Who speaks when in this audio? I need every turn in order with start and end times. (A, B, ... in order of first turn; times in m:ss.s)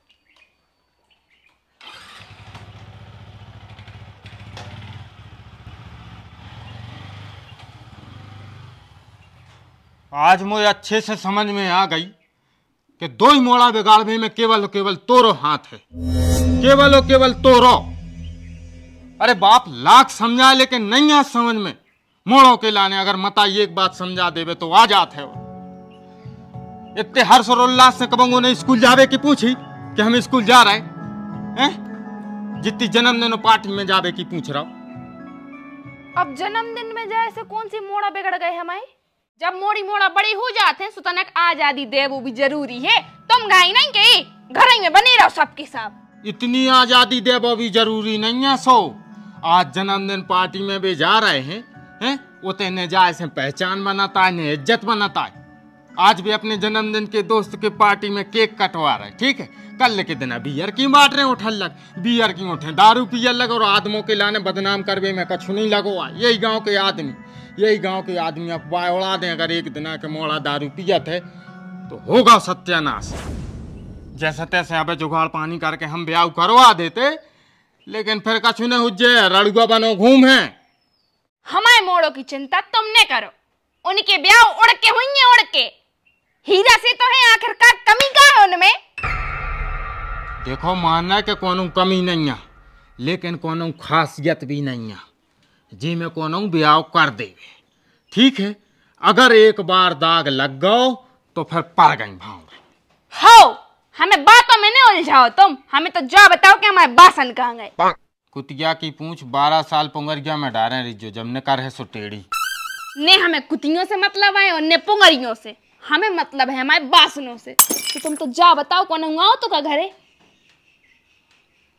0:10.1-0:12.1 A
0:13.0-0:15.8 A
0:16.6-0:17.9 A
0:19.2-0:25.4 A
0:27.0-0:30.9 A
0:32.6-0:34.7 A
0:36.2-0:45.9 B
0:46.2-0:55.4 A
0:56.0-1:11.2 A
1:11.9-1:13.2 A
1:14.2-1:17.2 A
1:17.9-1:20.6 A
1:21.5-1:23.3 B
1:23.8-1:25.7 B
1:26.4-1:28.8 B
1:30.4-1:32.4 A
1:33.0-1:35.0 A
1:35.7-1:37.4 A
1:38.1-1:42.6 A
1:43.1-1:47.7 B
1:48.3-1:52.2 A
1:53.0-1:59.9 B